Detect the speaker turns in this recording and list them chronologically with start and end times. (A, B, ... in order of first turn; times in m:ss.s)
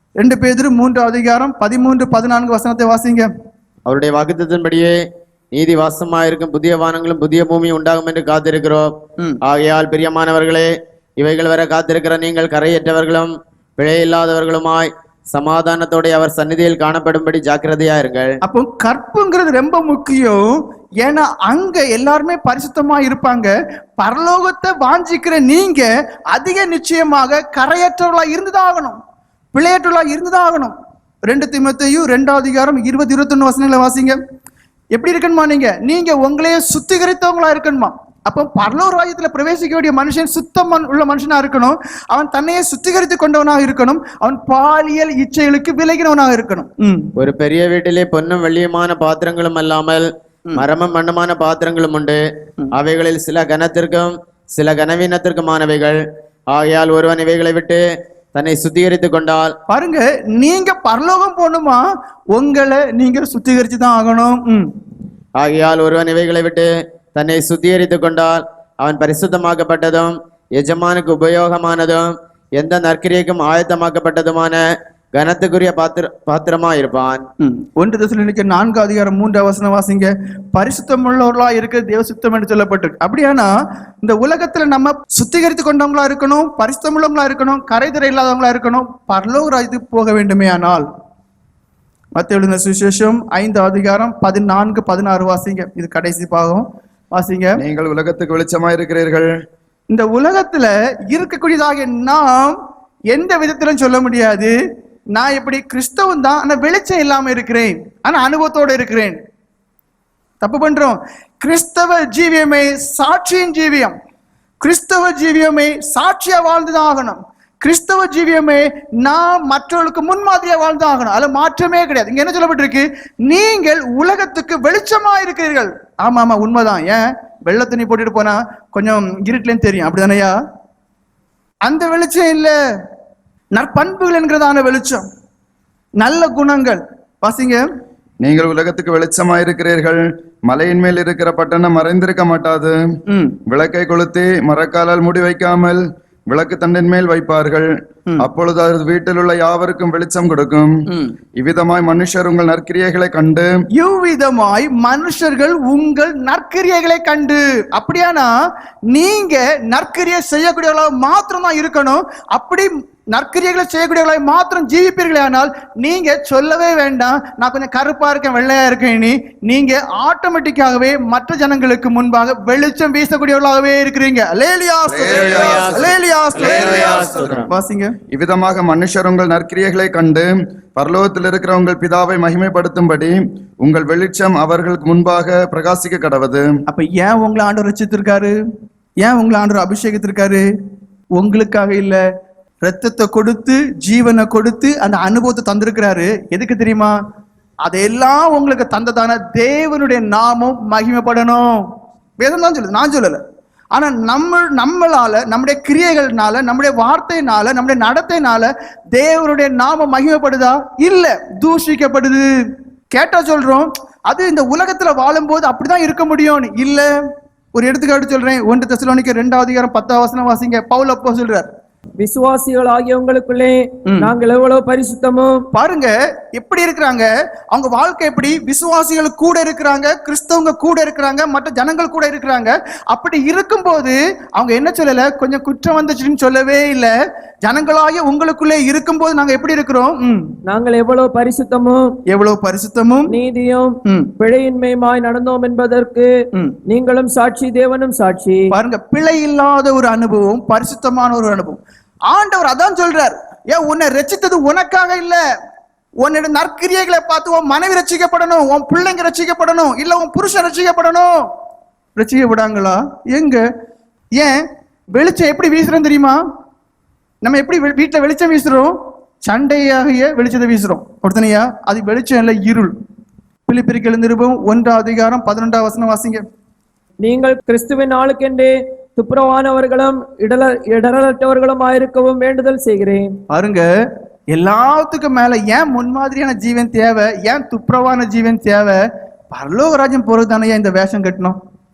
0:00.2-0:03.3 A
0:03.8-0:04.9 B
0:05.5-0:08.9 B
0:09.4-0:18.3 B
0:18.4-0:29.0 A
0:29.5-0:30.7 A
0:31.3-0:34.2 A
0:34.9-0:47.1 A
0:47.2-0:50.0 B
0:50.6-0:52.2 B
0:52.8-0:56.0 B
0:56.5-0:57.8 B
0:58.3-0:59.5 B
0:59.7-1:04.7 A
1:05.4-1:14.6 B
1:15.1-1:17.2 B
1:17.4-1:23.5 A
1:24.0-1:30.8 A
1:32.1-1:37.6 A
1:37.6-1:39.3 C
1:39.9-1:42.6 A
1:43.1-1:44.5 A
1:45.1-1:49.2 A
1:50.4-1:53.9 A
1:54.6-2:10.4 A
2:11.6-2:12.5 A
2:13.5-2:15.0 A
2:16.0-2:17.6 A
2:18.2-2:22.8 C
2:23.1-2:23.3 A
2:23.5-2:27.7 C
2:28.2-2:30.7 C
2:31.4-2:33.5 C
2:33.7-2:38.3 A
2:38.9-2:57.9 A
2:54.9-2:57.4 C
2:55.3-2:55.7 B
2:56.4-2:57.4 B
2:58.1-3:06.4 C
3:06.7-3:08.4 A
3:09.0-3:10.4 A
3:11.2-3:12.0 A
3:12.6-3:16.9 A
3:17.6-3:21.6 A
3:22.2-3:23.2 A
3:23.7-3:32.2 A
3:32.9-3:36.9 A
3:37.5-3:41.5 A
3:42.0-3:45.4 D
3:45.5-4:00.2 A
4:00.4-4:01.9 D
4:02.1-4:03.1 A
4:03.1-4:06.1 D
4:03.8-4:04.1 A
4:06.7-4:08.5 D
4:08.5-4:11.6 A
4:12.1-4:15.2 A
4:16.0-4:21.1 A
4:22.0-4:23.4 A
4:24.1-4:24.4 A
4:24.9-4:26.2 A
4:27.2-4:32.7 A
4:33.5-4:36.2 A
4:37.0-4:43.1 D
4:43.3-4:43.6 A
4:44.3-4:48.8 A
4:49.3-4:51.4 A